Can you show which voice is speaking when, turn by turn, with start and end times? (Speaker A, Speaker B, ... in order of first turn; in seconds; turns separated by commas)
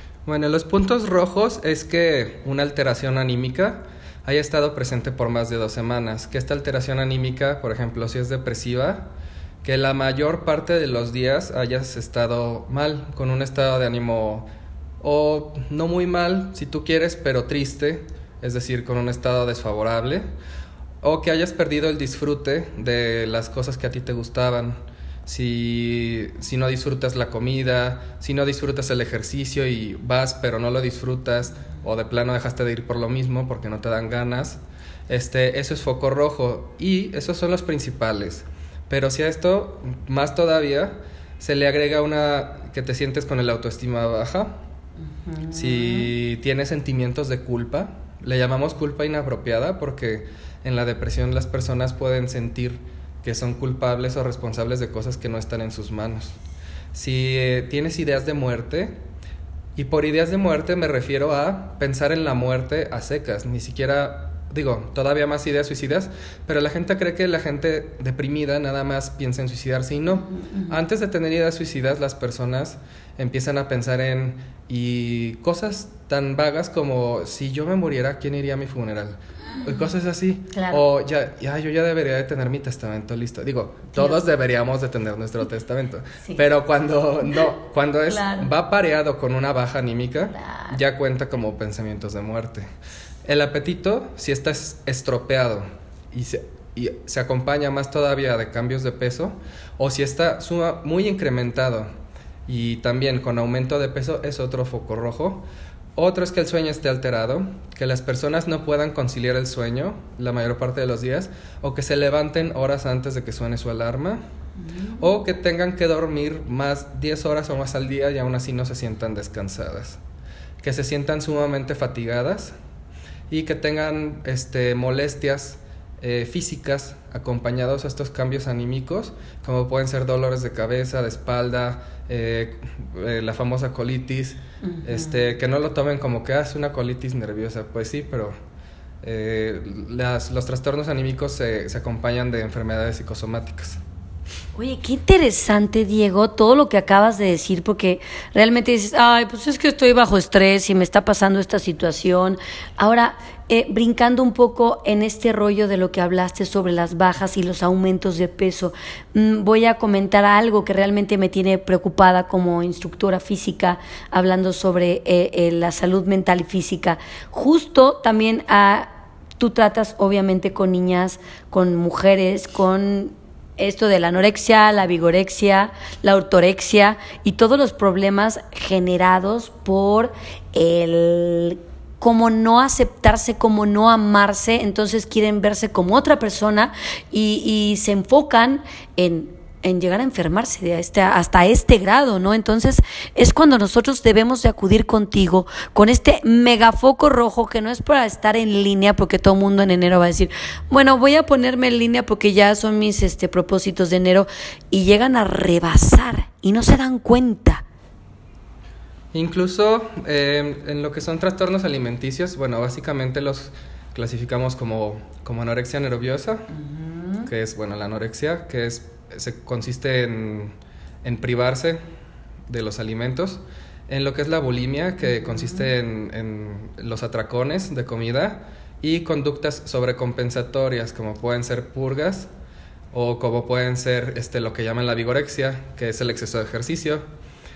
Speaker A: 0.2-9.1, Speaker A: 9.6-14.5, Speaker A: 15.0-20.2, Speaker A: 21.0-44.6, Speaker B: 45.2-46.1, Speaker A: 45.5-56.4, Speaker A: 56.9-59.0, Speaker A: 59.8-92.7, Speaker B: 70.1-70.8, Speaker B: 80.5-80.8, Speaker B: 88.1-88.5, Speaker B: 90.3-90.8, Speaker A: 93.2-101.9, Speaker A: 102.5-114.2, Speaker B: 114.6-115.1, Speaker A: 115.0-120.0, Speaker A: 120.6-122.5, Speaker A: 123.3-138.3, Speaker B: 134.6-135.3, Speaker A: 139.0-143.8, Speaker B: 144.5-207.6, Speaker A: 209.1-216.5, Speaker B: 216.6-217.3, Speaker A: 217.2-221.8, Speaker A: 222.5-232.3, Speaker A: 232.9-237.0